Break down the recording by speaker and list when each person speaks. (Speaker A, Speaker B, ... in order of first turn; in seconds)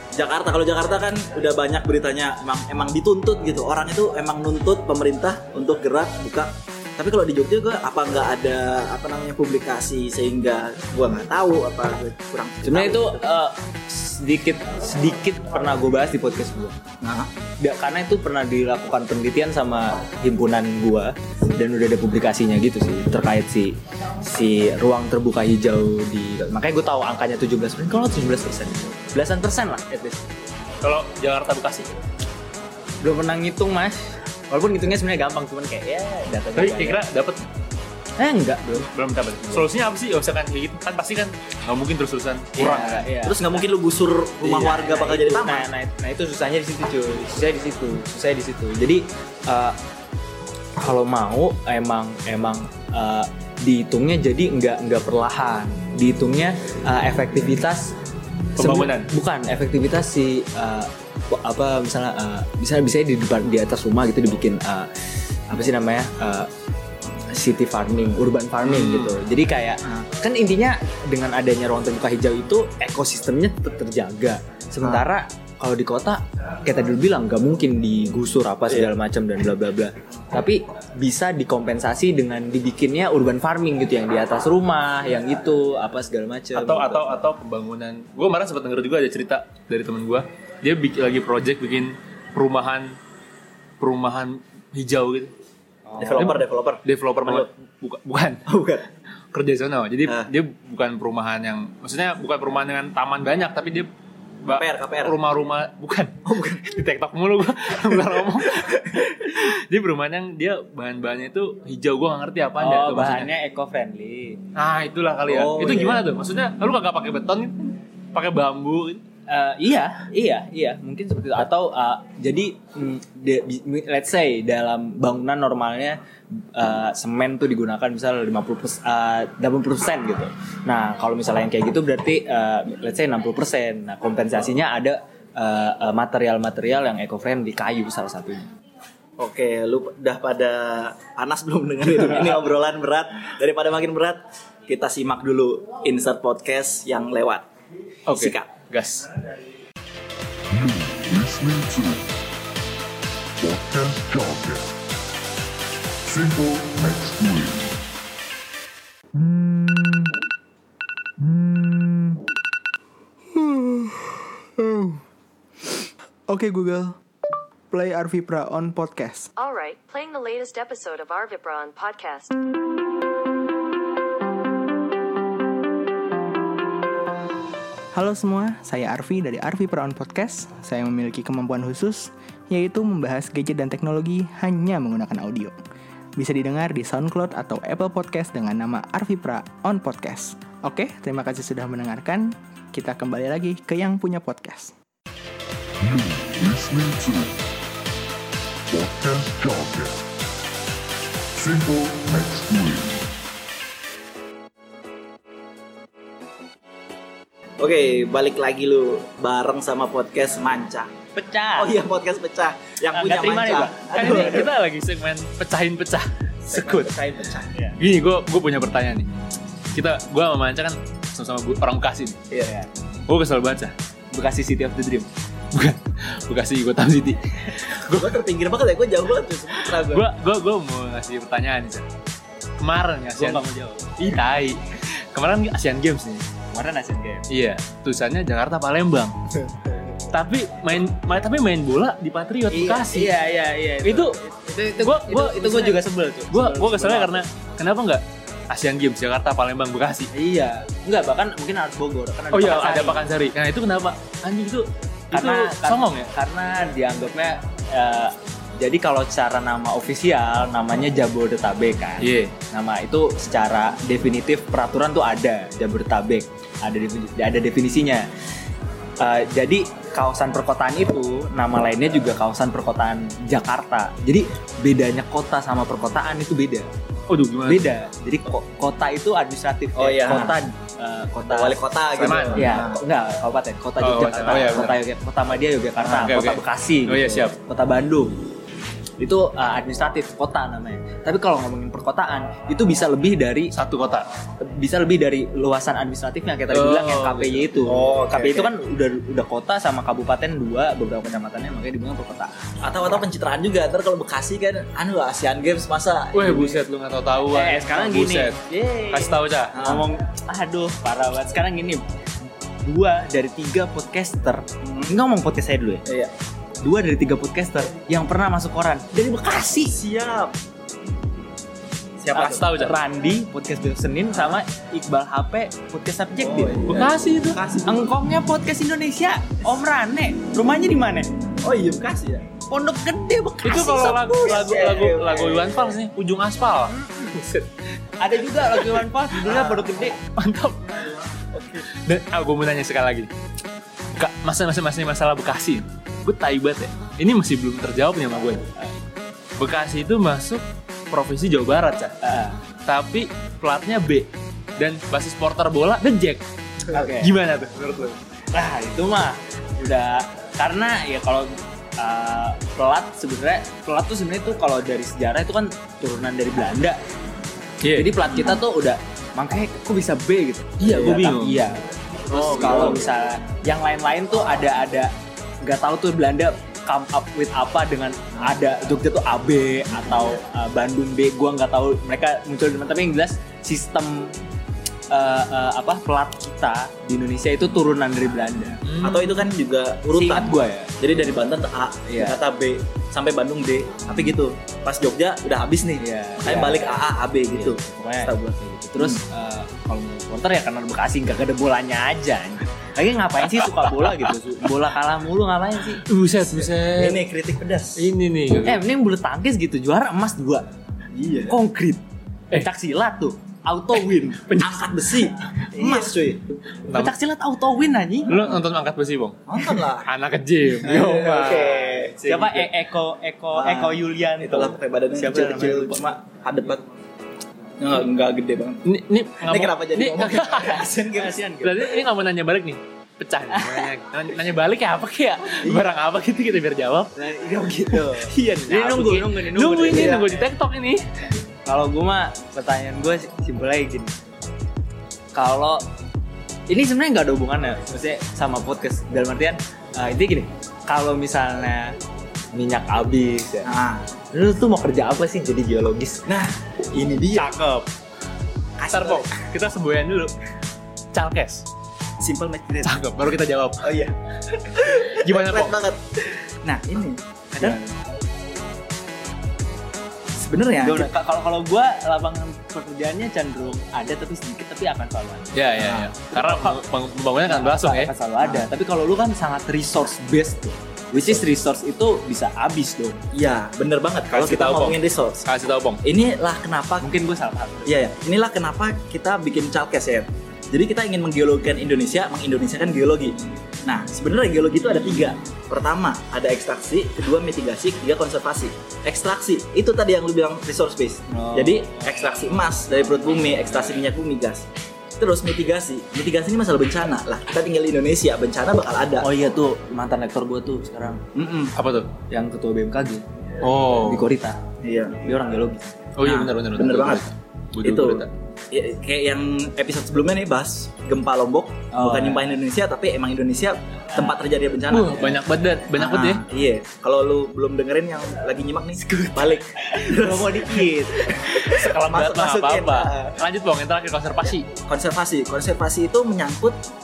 Speaker A: 0.1-13.2, 17.0-17.3, 42.7-45.7, 96.0-97.5, 98.5-98.8, 100.0-100.3, 104.5-105.2, 106.3-106.7, 108.0-109.0, 115.3-116.0, 139.2-147.5, 148.1-148.5, 207.6-210.9, 211.6-214.5, 216.5-217.5, 227.8-230.1, 279.8-280.4, 281.3-282.8, 297.7-298.5, 302.6-306.6, 309.5-309.9, 314.6-314.9, 315.9-316.1, 319.6-320.4, 322.0-322.4, 326.2-327.8, 331.4-332.3, 334.1-335.8, 339.2-339.7, 341.3-341.6, 372.1-372.9, 388.8-398.2, 406.3-407.9, 410.9-411.4, 414.4-416.2, 419.3-419.9, 420.6-422.2, 423.3-426.6, 427.6-428.6, 429.2-431.2, 439.7-440.1, 453.4-453.9, 456.1-457.4, 458.6-459.1, 462.0-462.9, 463.6-467.6, 470.1-470.9, 475.6-475.9, 480.9-481.2, 483.1-485.3, 485.8-486.9, 487.7-504.5, 505.0-509.1, 511.1-511.5, 514.6-515.0, 516.0-517.0, 517.6-525.2, 525.7-533.2, 534.6-536.6
Speaker B: 12.6-16.8, 17.6-30.3, 33.0-37.0, 38.2-39.7, 42.6-43.6, 44.4-49.8, 50.8-58.0, 58.6-64.9, 65.5-66.5, 67.3-87.0, 95.9-96.3, 112.6-114.4, 119.3-138.5, 211.2-211.8, 212.9-214.5, 222.4-222.7, 224.1-225.1, 233.2-234.1, 236.5-237.3, 242.5-247.2, 250.1-253.0, 255.1-268.1, 269.0-276.7, 277.5-281.6, 282.3-288.3, 289.0-293.5, 294.4-302.5, 307.3-311.9, 312.6-315.9, 316.6-319.8, 322.1-326.8, 327.6-331.1, 332.5-334.6, 336.7-337.5, 338.0-340.0, 352.0-352.4, 356.7-357.1, 358.3-366.8, 367.7-371.6, 372.1-384.1, 384.9-388.6, 389.9-390.7, 391.9-392.2, 395.8-405.9, 408.4-410.5, 411.3-414.4, 415.6-415.9, 416.7-418.2, 422.0-425.8, 430.9-431.5, 433.3-433.7, 437.0-440.1, 441.5-443.9, 445.1-445.6, 446.5-451.8, 452.3-453.5, 454.1-456.1, 457.1-457.7, 470.6-475.5, 476.1-476.6, 477.3-483.0, 486.8-487.8, 501.1-501.9, 509.0-511.0, 512.1-513.0, 513.7-514.4, 515.0-515.8, 521.7-522.3, 528.8-531.4
Speaker C: 30.8-31.9, 36.5-37.4, 38.9-43.1, 58.6-59.1, 68.7-69.2, 86.5-93.0, 93.8-95.3, 96.2-98.5, 99.3-103.9, 104.4-113.3, 114.5-119.0, 148.1-149.1, 213.9-216.9, 217.8-219.1, 219.7-222.2, 223.1-223.7, 225.5-228.2, 229.5-231.8, 232.6-233.4, 234.0-236.3, 237.3-239.2, 240.1-243.1, 243.8-244.2, 244.8-250.1, 252.3-256.1, 262.0-262.3, 277.1-277.7, 282.0-282.6, 283.8-284.8, 285.8-287.4, 293.5-294.1, 296.5-297.5, 306.1-308.4, 308.9-309.6, 322.1-322.8, 326.7-327.4, 333.4-336.8, 339.9-340.9, 341.7-343.1, 343.9-348.5, 349.4-351.9, 352.7-356.2, 356.8-358.0, 367.6-368.0, 370.6-371.4, 372.1-372.8, 388.6-389.2, 405.9-407.0, 407.8-408.6, 414.3-414.6, 416.7-416.9, 418.1-422.3, 428.6-430.7, 431.4-436.9, 438.1-440.9, 458.7-460.1, 460.9-461.4, 462.6-463.8, 464.9-465.6, 475.3-477.9, 484.1-485.8, 511.6-511.9, 513.4-514.1, 516.0-518.1, 524.7-526.2, 531.3-534.5
Speaker D: 150.5-152.1, 153.4-154.7, 156.1-157.8, 195.8-197.4, 198.7-200.0, 201.3-203.1
Speaker E: 159.1-160.2, 161.2-162.2, 163.3-165.0, 166.3-167.0, 167.7-169.3, 177.9-185.6, 186.2-194.7
Speaker F: 169.4-172.4